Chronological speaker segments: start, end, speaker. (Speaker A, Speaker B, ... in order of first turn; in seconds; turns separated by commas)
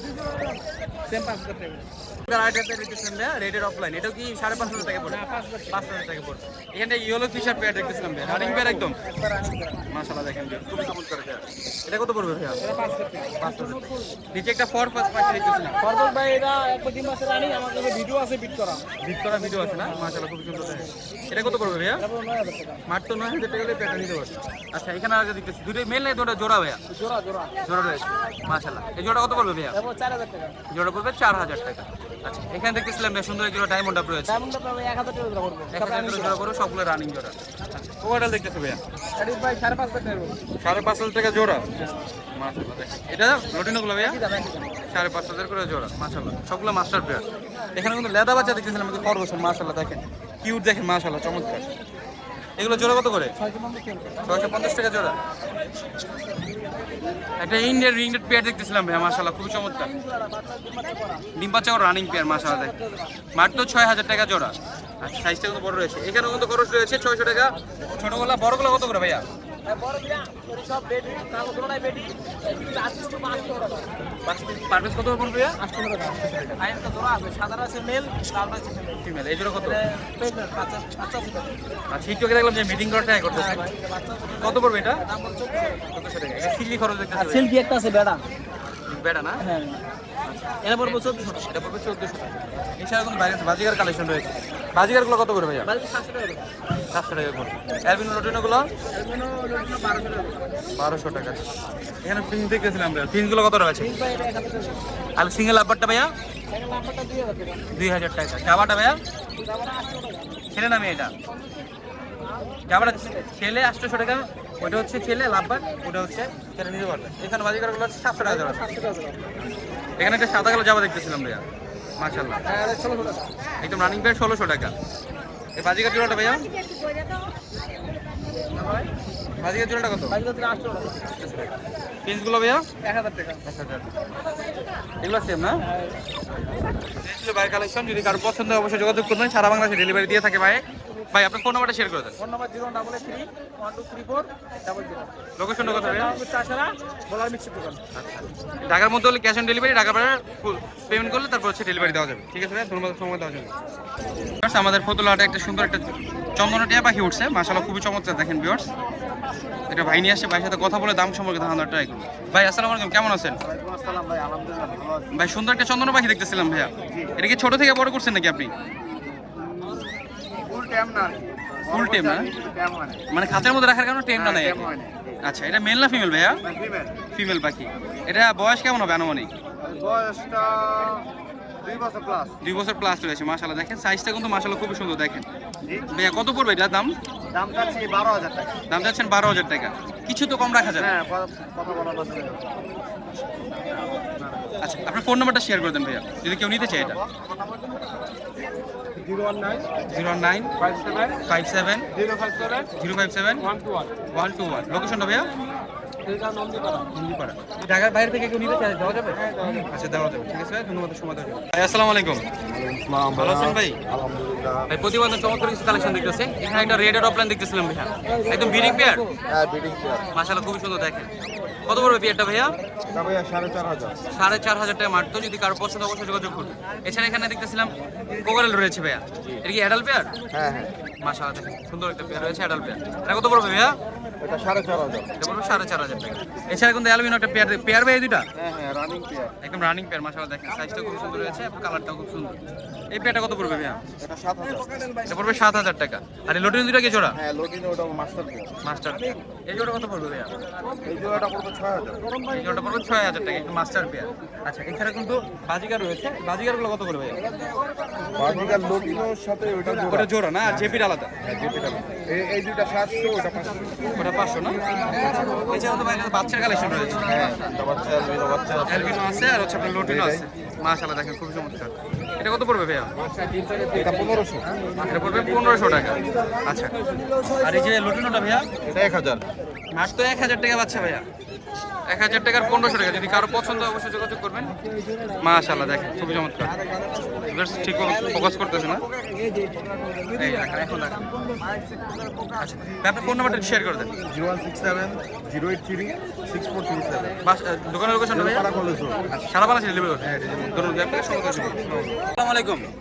Speaker A: 1.1-1.9, Speaker B: 2.2-9.0, Speaker A: 4.8-5.8, Speaker A: 8.2-9.8, Speaker B: 9.9-12.6, Speaker A: 12.6-14.2, Speaker B: 13.4-15.8, Speaker A: 15.8-18.8, Speaker B: 19.0-22.0, Speaker A: 19.4-20.0, Speaker A: 21.3-22.8, Speaker B: 22.9-26.8, Speaker A: 26.9-27.5, Speaker B: 27.6-29.8, Speaker A: 29.7-30.6, Speaker B: 30.7-34.4, Speaker A: 34.3-36.3, Speaker B: 35.7-38.8, Speaker A: 39.1-40.4, Speaker B: 40.6-41.6, Speaker B: 42.3-44.2, Speaker A: 44.0-44.7, Speaker B: 44.9-47.2, Speaker B: 47.7-51.6, Speaker B: 52.6-53.3, Speaker A: 53.4-54.3, Speaker B: 54.2-55.1, Speaker B: 57.4-59.9, Speaker A: 59.9-61.2, Speaker B: 61.4-62.7, Speaker A: 62.3-63.1, Speaker B: 63.3-69.2, Speaker A: 69.6-74.0, Speaker B: 74.2-75.6, Speaker A: 75.6-79.0, Speaker B: 76.2-76.6, Speaker B: 79.0-79.8, Speaker A: 79.6-81.6, Speaker B: 81.9-83.7, Speaker A: 83.3-85.8, Speaker B: 84.4-85.0, Speaker B: 85.9-87.5, Speaker A: 87.1-88.2, Speaker B: 88.9-89.4, Speaker A: 89.4-89.8, Speaker B: 90.2-95.7, Speaker A: 90.6-91.5, Speaker A: 95.7-96.4, Speaker B: 96.9-98.7, Speaker A: 98.9-100.5, Speaker B: 100.8-104.0, Speaker A: 103.8-104.8, Speaker B: 105.2-106.1, Speaker A: 106.5-107.6, Speaker B: 107.7-109.0, Speaker A: 109.3-110.3, Speaker B: 110.5-111.1, Speaker B: 112.7-118.7, Speaker A: 112.7-113.2, Speaker A: 118.2-119.3, Speaker B: 120.0-121.4, Speaker B: 122.0-122.4, Speaker A: 122.4-123.3, Speaker B: 123.6-124.7, Speaker B: 125.6-126.5, Speaker A: 128.5-128.9, Speaker B: 129.4-130.2, Speaker A: 130.1-131.1, Speaker B: 131.2-131.5, Speaker B: 132.0-132.7, Speaker A: 132.8-133.4, Speaker B: 133.4-133.9, Speaker B: 135.0-135.6, Speaker B: 137.0-142.2, Speaker A: 142.2-147.8, Speaker B: 145.4-146.2, Speaker B: 147.9-153.5, Speaker B: 154.4-158.7, Speaker B: 159.7-163.4, Speaker C: 163.4-164.9, Speaker B: 165.1-168.5, Speaker A: 169.5-169.9, Speaker C: 170.5-172.8, Speaker B: 171.6-172.3, Speaker B: 173.1-176.4, Speaker A: 174.2-174.5, Speaker C: 176.5-176.9, Speaker B: 177.1-179.3, Speaker C: 179.7-180.9, Speaker C: 181.6-182.3, Speaker B: 182.4-185.2, Speaker B: 185.9-186.9, Speaker C: 187.3-188.5, Speaker B: 188.7-190.9, Speaker C: 190.8-192.5, Speaker B: 194.6-197.0, Speaker A: 199.0-199.7, Speaker B: 199.8-200.5, Speaker A: 200.6-201.2, Speaker B: 201.2-201.9, Speaker C: 202.0-202.6, Speaker B: 202.8-203.5, Speaker A: 203.5-203.9, Speaker B: 204.1-205.3, Speaker A: 206.0-206.9, Speaker B: 206.9-212.3, Speaker C: 209.4-209.6, Speaker C: 212.5-214.7, Speaker B: 213.1-213.8, Speaker B: 214.7-219.1, Speaker A: 218.3-218.8, Speaker C: 219.2-220.1, Speaker B: 220.1-221.1, Speaker B: 221.7-222.6, Speaker C: 222.9-224.0, Speaker B: 224.1-230.1, Speaker C: 230.3-230.7, Speaker B: 231.0-233.8, Speaker C: 234.2-235.1, Speaker B: 235.2-238.2, Speaker C: 238.3-239.3, Speaker B: 239.4-242.4, Speaker B: 242.9-243.9, Speaker C: 244.0-245.0, Speaker B: 245.1-247.2, Speaker C: 247.2-248.6, Speaker B: 248.6-250.4, Speaker C: 250.8-252.0, Speaker A: 252.1-253.1, Speaker B: 252.3-257.2, Speaker A: 257.2-259.0, Speaker C: 258.1-264.0, Speaker B: 259.8-261.1, Speaker B: 263.9-264.6, Speaker A: 264.7-265.5, Speaker B: 265.2-267.3, Speaker A: 266.9-267.5, Speaker C: 266.9-270.3, Speaker B: 268.6-272.9, Speaker A: 273.0-277.8, Speaker B: 273.8-276.7, Speaker C: 273.9-274.4, Speaker B: 277.4-278.5, Speaker C: 278.6-279.2, Speaker B: 279.7-281.0, Speaker B: 281.9-284.6, Speaker A: 282.7-283.1, Speaker A: 284.8-285.9, Speaker B: 285.2-286.6, Speaker C: 286.6-287.3, Speaker B: 287.3-288.9, Speaker A: 287.8-292.3, Speaker B: 290.1-291.1, Speaker B: 292.4-294.0, Speaker C: 294.0-297.2, Speaker B: 297.2-298.5, Speaker C: 298.1-299.1, Speaker B: 299.1-302.7, Speaker C: 300.0-301.0